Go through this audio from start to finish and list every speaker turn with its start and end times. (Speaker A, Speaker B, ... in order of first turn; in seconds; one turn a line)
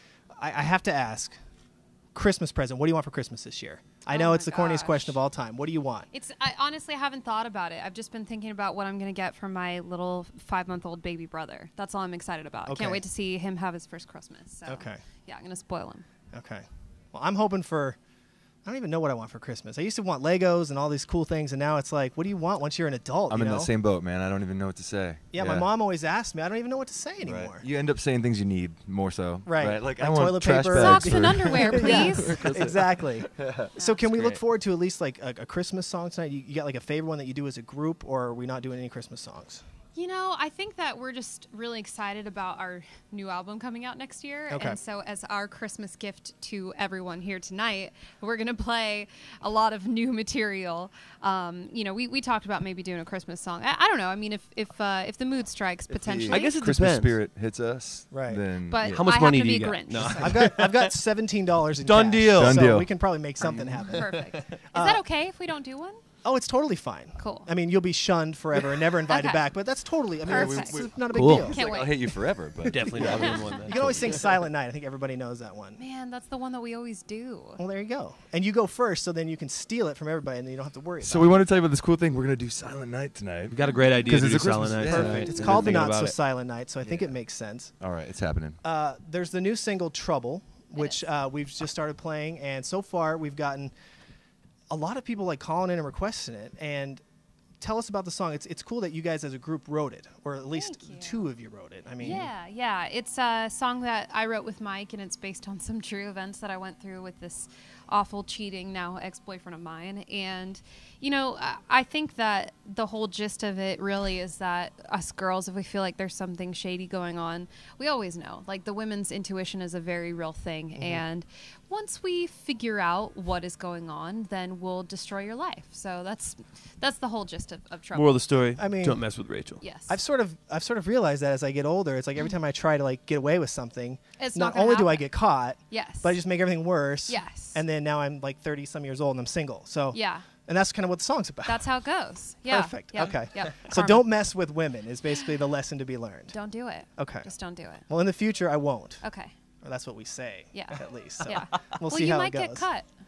Speaker A: 0.4-1.4
Speaker A: 2.1-6.1
Speaker B: 4.1-5.2
Speaker B: 6.1-16.1
Speaker A: 12.7-13.0
Speaker A: 14.7-15.0
Speaker A: 16.3-18.0
Speaker A: 18.6-23.7
Speaker C: 23.3-25.7
Speaker A: 25.3-27.6
Speaker C: 27.2-32.1
Speaker A: 29.4-39.6
Speaker B: 30.7-32.5
Speaker D: 31.8-32.8
Speaker C: 33.4-33.7
Speaker B: 33.8-34.1
Speaker D: 34.1-34.4
Speaker B: 40.0-56.6
Speaker A: 44.5-44.8
Speaker C: 55.9-59.1
Speaker D: 56.3-57.2
Speaker A: 58.1-58.4
Speaker B: 58.7-60.4
Speaker D: 58.9-60.9
Speaker A: 60.2-64.2
Speaker D: 61.8-62.6
Speaker C: 62.3-62.9
Speaker D: 63.4-64.6
Speaker B: 63.9-66.0
Speaker A: 64.7-65.0
Speaker A: 66.2-71.6
Speaker B: 67.2-67.5
Speaker B: 69.0-69.5
Speaker B: 70.3-72.4
Speaker C: 70.3-74.2
Speaker D: 71.1-71.6
Speaker D: 72.6-74.2
Speaker B: 73.0-73.5
Speaker A: 73.6-75.8
Speaker B: 75.8-77.6
Speaker A: 77.6-81.3
Speaker C: 81.0-85.9
Speaker D: 83.5-86.2
Speaker A: 84.8-87.7
Speaker C: 87.8-88.6
Speaker A: 88.6-93.7
Speaker B: 90.8-91.0
Speaker A: 94.7-97.0
Speaker A: 97.6-102.3
Speaker B: 100.5-101.3
Speaker B: 102.0-128.2
Speaker A: 120.8-121.0
Speaker D: 127.9-129.7
Speaker A: 128.6-129.0
Speaker B: 129.6-130.0
Speaker A: 129.9-141.7
Speaker B: 134.2-135.2
Speaker B: 135.7-136.2
Speaker B: 137.1-137.6
Speaker B: 139.9-140.3
Speaker B: 141.4-144.2
Speaker A: 142.5-146.4
Speaker B: 146.3-147.8
Speaker A: 147.0-147.3
Speaker A: 147.9-149.0
Speaker B: 149.0-149.3
Speaker A: 149.6-152.7
Speaker B: 150.5-152.9